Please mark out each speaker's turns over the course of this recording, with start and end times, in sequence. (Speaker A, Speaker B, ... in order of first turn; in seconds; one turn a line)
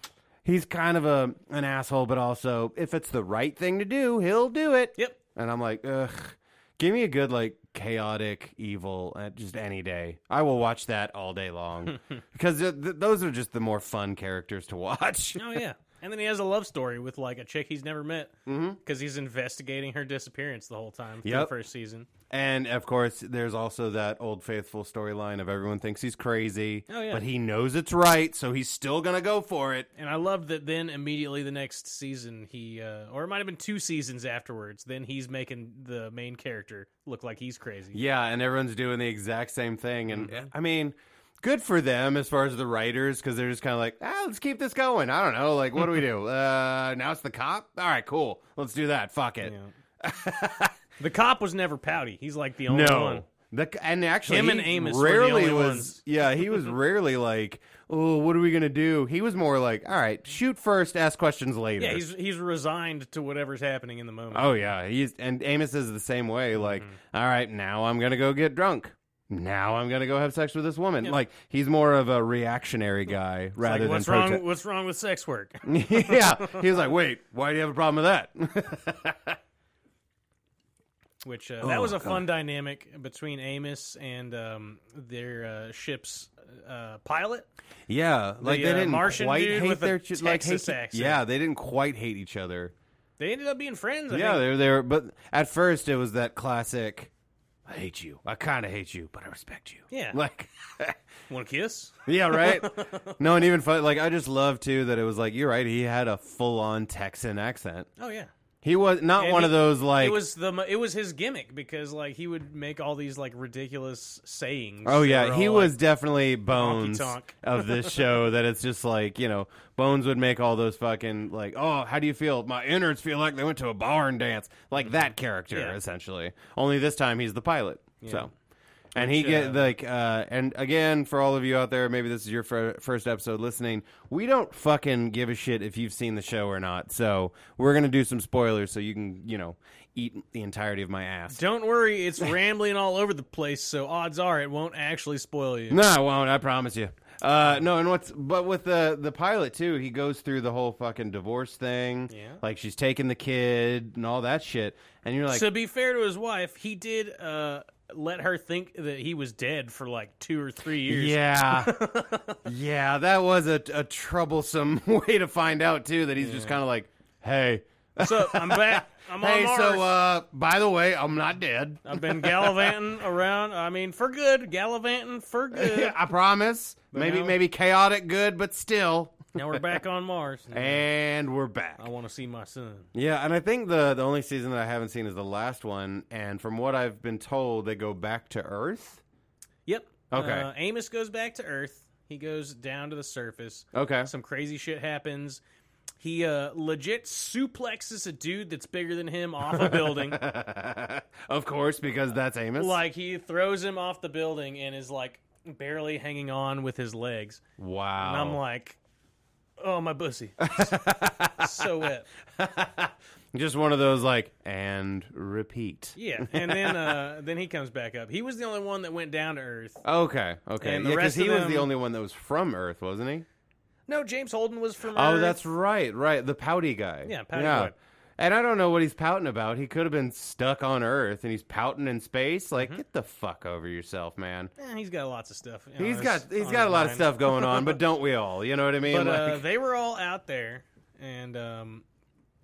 Speaker A: 0.4-15.6
Speaker B: 15.3-22.1
Speaker A: 18.4-18.8
Speaker A: 21.2-21.5
Speaker A: 22.3-29.9
Speaker B: 26.9-27.2
Speaker B: 30.0-38.0
Speaker A: 37.9-50.8
Speaker B: 40.1-40.5
Speaker B: 49.4-49.7
Speaker B: 51.0-53.2
Speaker A: 52.7-62.0
Speaker B: 54.2-56.7
Speaker B: 61.8-64.5
Speaker A: 64.3-74.4
Speaker B: 66.5-66.9
Speaker B: 73.6-76.7
Speaker A: 75.6-79.4
Speaker B: 81.2-87.5
Speaker A: 81.6-82.3
Speaker A: 87.9-92.7
Speaker B: 88.4-91.2
Speaker B: 93.2-94.5
Speaker A: 94.1-97.1
Speaker A: 97.7-101.0
Speaker B: 99.9-100.2
Speaker B: 101.3-103.2
Speaker A: 102.0-107.9
Speaker B: 108.0-108.3
Speaker A: 108.6-110.2
Speaker B: 109.2-115.8
Speaker A: 114.8-128.3
Speaker B: 116.5-118.1
Speaker B: 125.5-125.8
Speaker B: 128.0-128.3
Speaker B: 128.9-129.8
Speaker A: 128.9-141.4
Speaker B: 141.3-145.8
Speaker A: 145.7-155.5
Speaker B: 152.1-152.4
Speaker B: 155.3-162.4
Speaker A: 160.8-161.7
Speaker A: 162.4-172.8
Speaker B: 166.2-166.6
Speaker B: 168.0-169.9
Speaker B: 171.8-176.0
Speaker A: 175.5-179.6
Speaker B: 176.9-177.4
Speaker B: 179.3-180.8
Speaker A: 180.5-181.8
Speaker B: 181.8-182.9
Speaker A: 182.9-189.0
Speaker B: 189.7-195.4
Speaker A: 190.1-190.5
Speaker A: 193.7-194.1
Speaker B: 196.0-200.2
Speaker A: 199.5-202.8
Speaker B: 202.6-207.4
Speaker A: 207.6-208.4
Speaker B: 208.0-208.8
Speaker B: 209.6-212.1
Speaker A: 210.4-211.7
Speaker A: 212.4-217.0
Speaker B: 215.9-219.8
Speaker A: 219.8-223.2
Speaker B: 220.6-221.7
Speaker B: 223.9-225.4
Speaker A: 224.9-234.5
Speaker B: 227.0-227.7
Speaker B: 234.6-237.8
Speaker A: 235.8-239.4
Speaker B: 238.8-241.8